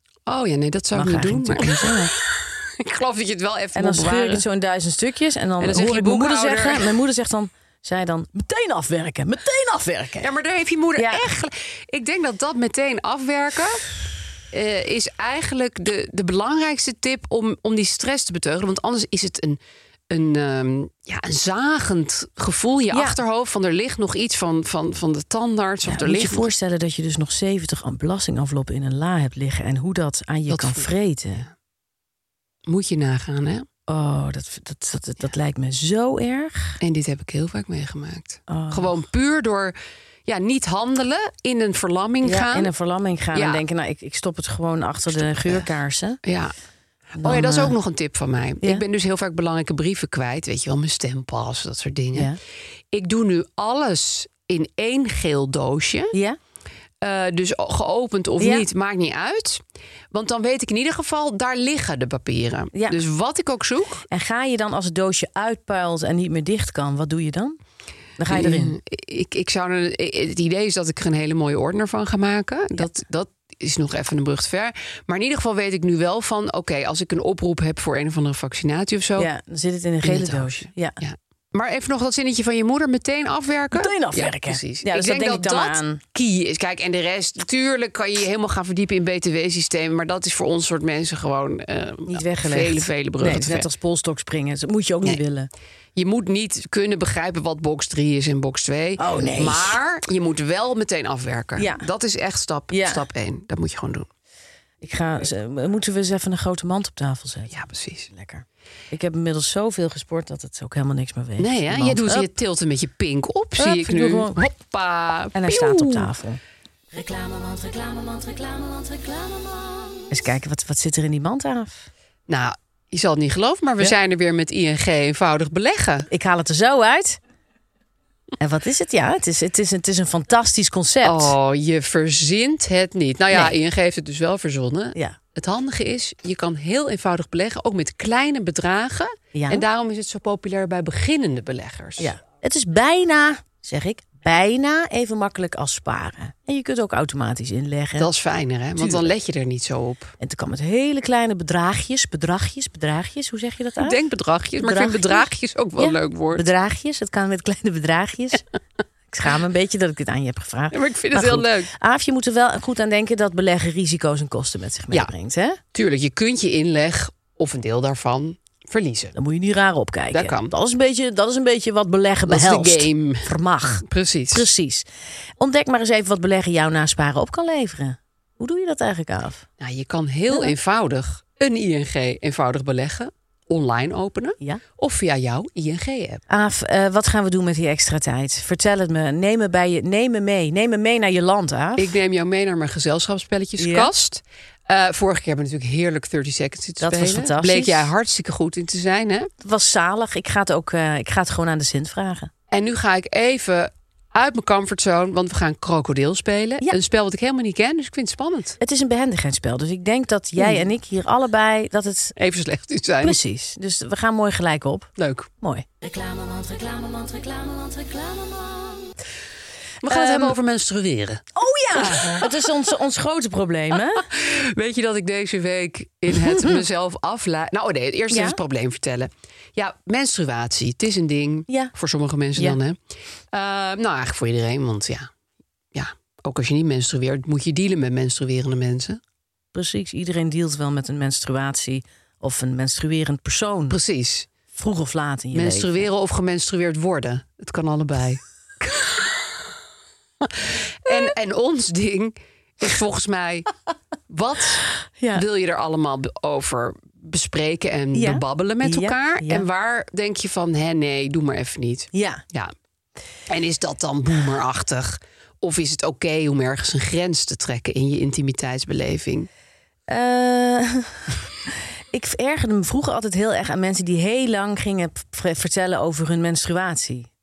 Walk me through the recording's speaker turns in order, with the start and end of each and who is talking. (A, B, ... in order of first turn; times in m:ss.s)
0:00.3-0:04.5 A
0:00.9-0:02.1 B
0:03.8-0:10.3 B
0:05.6-0:07.0 A
0:10.2-0:13.8 A
0:11.0-0:11.2 B
0:14.5-0:26.5 A
0:22.9-0:23.2 B
0:25.9-0:31.5 B
0:30.5-0:30.9 A
0:32.7-0:33.7 A
0:33.9-0:36.8 B
0:36.8-0:39.8 A
0:38.5-0:39.0 B
0:40.3-0:42.7 A
0:42.2-0:46.2 B
0:43.3-0:43.6 A
0:45.1-0:45.7 A
0:46.2-0:46.5 A
0:47.2-0:47.7 B
0:47.2-0:52.3 A
0:52.9-0:56.1 A
0:56.1-0:56.4 B
0:57.0-1:04.0 A
0:58.4-0:58.7 B
1:02.7-1:03.0 B
1:04.1-1:07.6 B
1:08.2-1:08.8 B
1:08.3-1:19.3 A
1:19.2-1:21.0 B
1:20.0-1:33.7 A
1:23.7-1:26.0 B
1:32.1-1:35.5 B
1:36.0-1:44.1 A
1:39.0-1:39.8 B
1:41.6-1:41.8 B
1:42.7-1:43.1 B
1:44.8-1:47.6 B
1:47.5-1:48.1 A
1:48.1-1:52.3 B
1:51.4-1:56.1 A
1:53.6-1:54.4 B
1:55.4-1:56.4 B
1:56.9-2:01.9 B
2:02.3-2:06.1 A
2:06.1-2:07.2 B
2:08.4-2:11.4 B
2:11.0-2:22.1 A
2:19.3-2:19.6 B
2:22.0-2:28.1 B
2:28.0-2:30.1 A
2:28.8-2:29.1 B
2:30.2-2:34.0 B
2:33.8-2:36.5 A
2:34.6-2:38.4 B
2:39.1-2:45.6 B
2:40.7-2:41.7 A
2:45.7-2:49.2 A
2:49.2-2:54.9 B
2:50.1-2:50.5 A
2:52.3-2:53.3 A
2:53.8-2:54.5 A
2:55.4-2:59.5 B
2:59.6-3:06.2 A
3:06.3-3:11.9 B
3:11.8-3:19.3 A
3:13.6-3:13.9 B
3:16.8-3:17.9 B
3:19.4-3:22.3 B
3:22.5-3:28.6 A
3:28.6-3:32.2 B
3:30.4-3:30.6 A
3:32.2-3:33.2 A
3:33.0-3:38.9 B
3:35.0-3:35.3 A
3:39.8-3:42.3 A
3:39.8-3:40.4 B
3:41.4-3:44.1 B
3:44.0-3:52.8 A
3:48.1-3:48.4 B
3:53.3-3:55.1 A
3:55.7-3:59.0 A
3:59.5-4:03.8 B
4:03.7-4:04.3 A
4:04.5-4:05.9 B
4:05.3-4:09.2 A
4:10.2-4:13.5 A
4:14.1-4:22.5 A
4:15.0-4:15.2 B
4:17.9-4:19.5 B
4:21.9-4:22.2 B
4:23.3-4:29.3 A
4:29.9-4:31.2 B
4:31.9-4:37.1 B